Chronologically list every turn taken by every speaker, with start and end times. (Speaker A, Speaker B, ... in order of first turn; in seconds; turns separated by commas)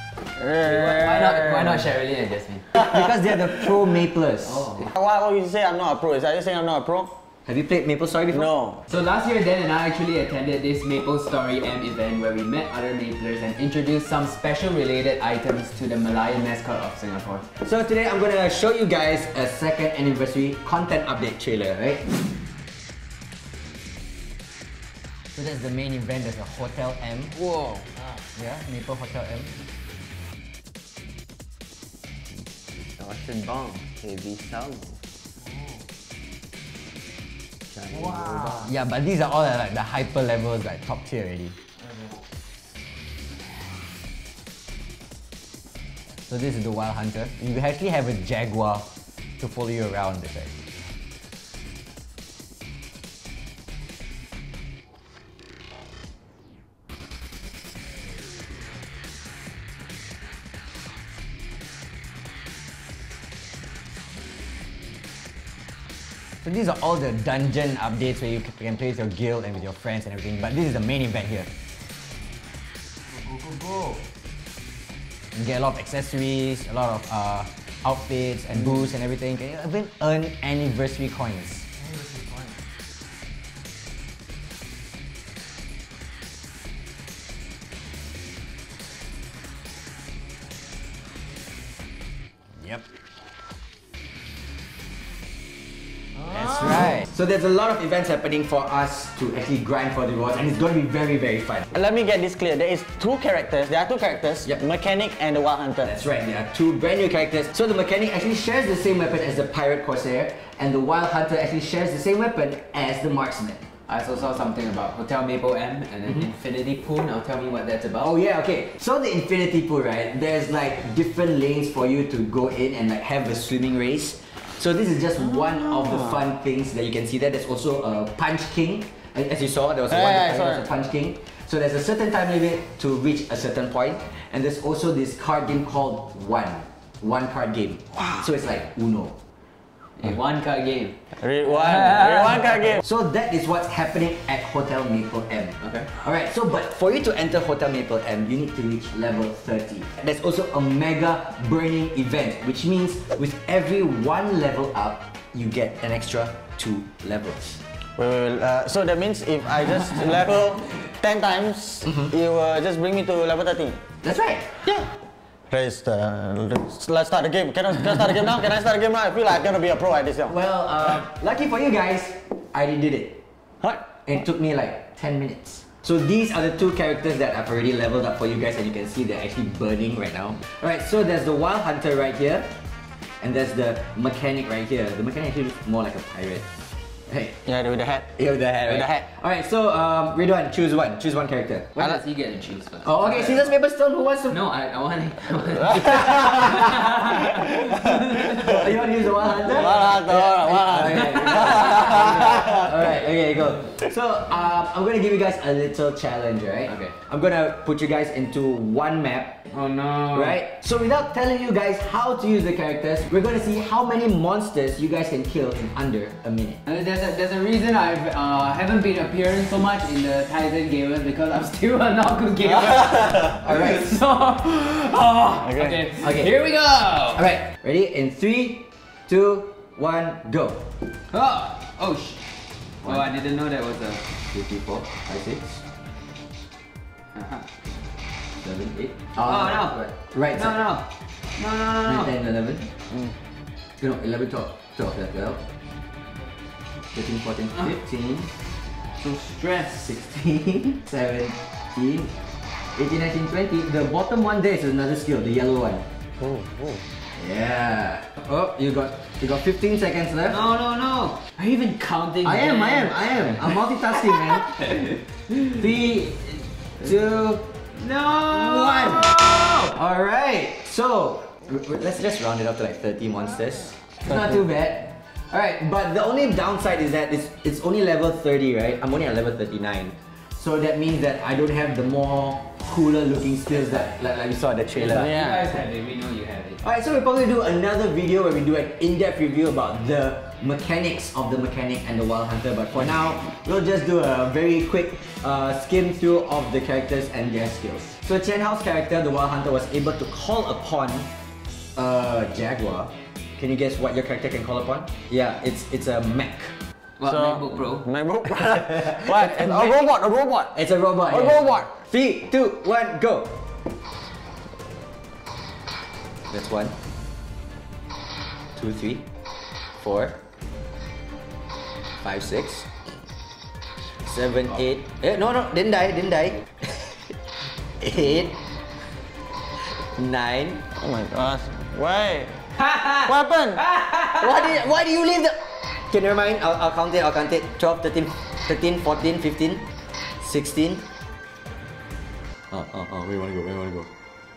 Speaker A: 0.4-1.9, Speaker B: 0.6-2.7, Speaker C: 2.7-4.8, Speaker B: 4.5-4.9, Speaker A: 4.9-7.1, Speaker C: 7.5-8.5, Speaker A: 8.3-8.8, Speaker B: 8.9-17.5, Speaker C: 17.6-22.1, Speaker C: 25.3-27.4, Speaker B: 27.4-27.9, Speaker C: 28.4-29.5, Speaker B: 32.8-34.8, Speaker B: 37.8-38.7, Speaker C: 38.6-41.6, Speaker C: 46.3-50.5, Speaker C: 66.4-71.5, Speaker B: 73.2-74.0, Speaker C: 75.3-81.7, Speaker B: 81.9-82.5, Speaker C: 96.3-101.7, Speaker A: 101.7-105.9, Speaker C: 105.8-113.7, Speaker B: 113.9-118.1, Speaker C: 118.0-139.2, Speaker A: 129.9-130.6, Speaker B: 140.0-142.6, Speaker A: 141.2-142.8, Speaker C: 142.8-157.6, Speaker B: 145.6-145.9, Speaker A: 158.0-163.8, Speaker C: 164.0-164.6, Speaker A: 165.5-170.3, Speaker C: 170.3-173.2, Speaker C: 174.1-182.5, Speaker C: 183.2-186.5, Speaker C: 187.1-187.4, Speaker A: 187.5-188.1, Speaker C: 188.2-191.8, Speaker A: 188.7-189.0, Speaker B: 191.8-193.5, Speaker C: 192.8-194.4, Speaker B: 194.3-198.7, Speaker C: 198.3-209.4, Speaker A: 199.5-201.8, Speaker B: 201.0-202.6, Speaker B: 206.7-207.0, Speaker B: 209.5-210.4, Speaker C: 210.1-216.6, Speaker B: 216.7-227.2, Speaker C: 223.3-224.0, Speaker A: 225.4-225.8, Speaker C: 226.0-226.3, Speaker C: 227.2-230.7, Speaker B: 231.1-232.3, Speaker B: 232.8-234.1, Speaker C: 234.3-235.6, Speaker B: 237.2-237.5, Speaker C: 238.4-240.7, Speaker B: 239.2-240.9, Speaker B: 241.4-242.1, Speaker C: 241.8-242.7, Speaker C: 243.8-245.4, Speaker C: 246.9-248.3, Speaker C: 249.0-252.1, Speaker C: 252.8-255.8, Speaker A: 256.2-256.8, Speaker C: 257.2-260.4, Speaker B: 260.3-265.0, Speaker C: 262.2-264.6, Speaker C: 265.5-285.1, Speaker B: 268.3-269.6, Speaker B: 284.9-286.6, Speaker A: 284.9-285.5, Speaker C: 286.6-301.1, Speaker C: 301.8-306.5, Speaker B: 307.0-307.9, Speaker A: 307.1-310.5, Speaker C: 308.5-309.9, Speaker C: 310.5-313.3, Speaker A: 311.1-311.7, Speaker C: 316.3-316.7, Speaker C: 318.6-319.1, Speaker C: 319.8-320.2, Speaker C: 322.0-322.7, Speaker C: 324.0-327.1, Speaker C: 327.8-328.4, Speaker C: 329.9-330.6, Speaker A: 330.8-332.4, Speaker A: 332.9-333.7, Speaker C: 333.8-339.6, Speaker C: 340.2-340.9, Speaker C: 342.5-343.9